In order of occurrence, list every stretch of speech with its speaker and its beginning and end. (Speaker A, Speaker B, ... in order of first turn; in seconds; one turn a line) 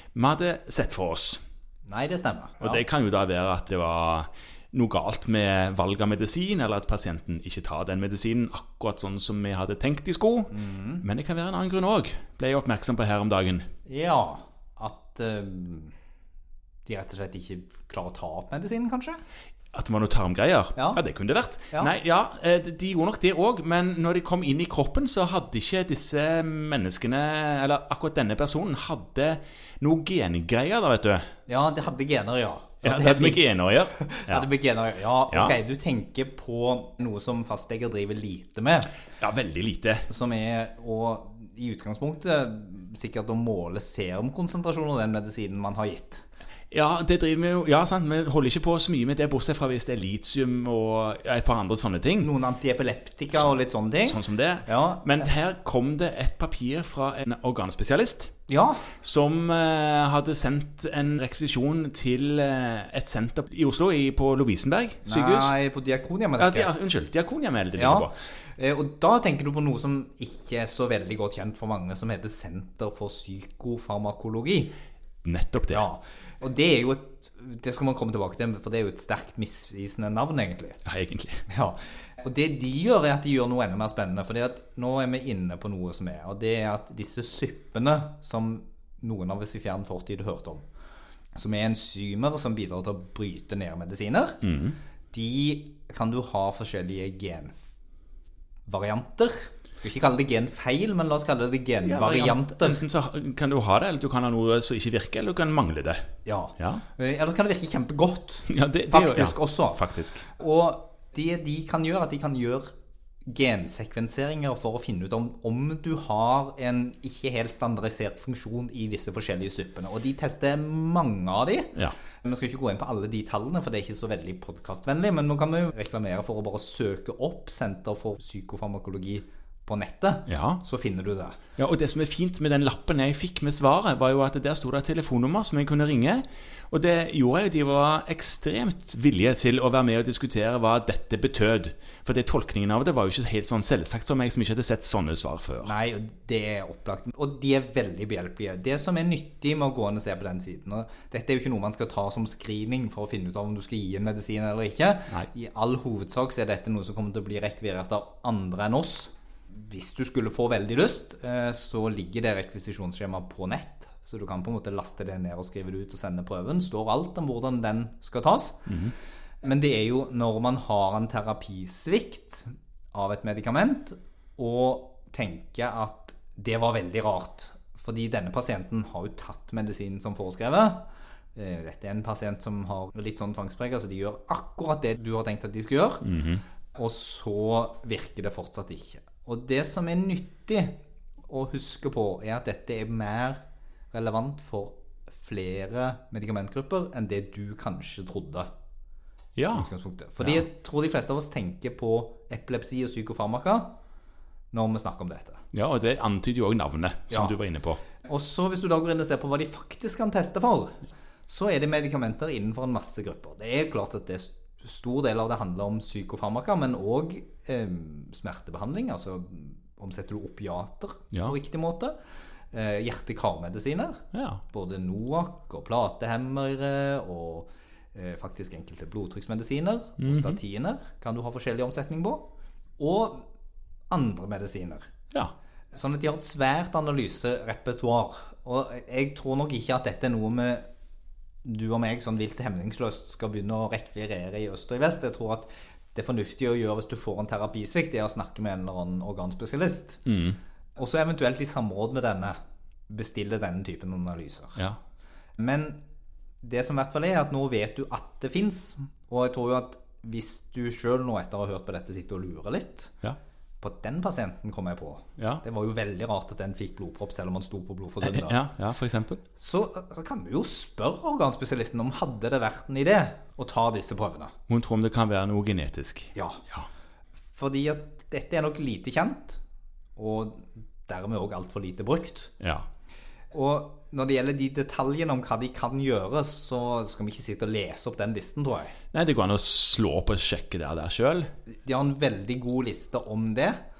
Speaker A: 0.1-1.4
Speaker B: 1.9-2.8
Speaker A: 2.6-13.7
Speaker B: 10.5-11.0
Speaker B: 13.8-15.9
Speaker B: 16.9-19.2
Speaker A: 19.7-31.2
Speaker B: 20.8-21.0
Speaker B: 31.5-38.9
Speaker A: 32.8-34.5
Speaker A: 35.3-35.5
Speaker A: 39.2-40.1
Speaker B: 40.1-46.2
Speaker A: 46.7-52.3
Speaker B: 52.2-55.3
Speaker A: 54.1-58.3
Speaker B: 58.5-58.9
Speaker A: 59.0-65.5
Speaker B: 65.0-66.7
Speaker A: 66.4-68.1
Speaker B: 67.8-74.7
Speaker A: 75.2-75.8
Speaker B: 75.7-80.8
Speaker A: 80.8-81.4
Speaker B: 81.5-90.7
Speaker B: 91.3-94.4
Speaker A: 94.4-94.8
Speaker B: 95.1-97.6
Speaker B: 98.7-102.8
Speaker A: 101.8-106.0
Speaker B: 106.2-112.7
Speaker A: 106.6-106.8
Speaker A: 108.5-110.2
Speaker B: 113.3-131.4
Speaker A: 130.3-130.6
Speaker A: 131.6-145.7
Speaker B: 145.6-168.7
Speaker A: 168.7-168.9
Speaker B: 169.4-186.2
Speaker A: 186.0-186.4
Speaker B: 186.7-190.8
Speaker B: 191.3-193.4
Speaker B: 193.9-198.5
Speaker A: 199.3-199.7
Speaker B: 199.5-203.7
Speaker B: 204.5-205.4
Speaker A: 205.5-207.8
Speaker B: 207.1-207.3
Speaker B: 208.0-221.9
Speaker B: 222.5-232.3
Speaker A: 224.1-224.4
Speaker A: 230.0-230.4
Speaker B: 232.8-233.2
Speaker B: 233.9-234.9
Speaker B: 235.7-240.6
Speaker B: 241.4-250.0
Speaker A: 250.1-250.4
Speaker B: 250.8-252.3
Speaker B: 252.9-254.6
Speaker B: 255.4-255.8
Speaker B: 256.4-262.9
Speaker B: 263.6-268.4
Speaker A: 265.2-265.4
Speaker A: 268.0-269.2
Speaker B: 269.4-274.3
Speaker A: 274.5-276.6
Speaker B: 276.1-276.4
Speaker B: 277.4-279.4
Speaker B: 279.9-282.3
Speaker A: 282.4-282.6
Speaker B: 283.3-288.7
Speaker A: 288.9-291.3
Speaker B: 291.5-293.6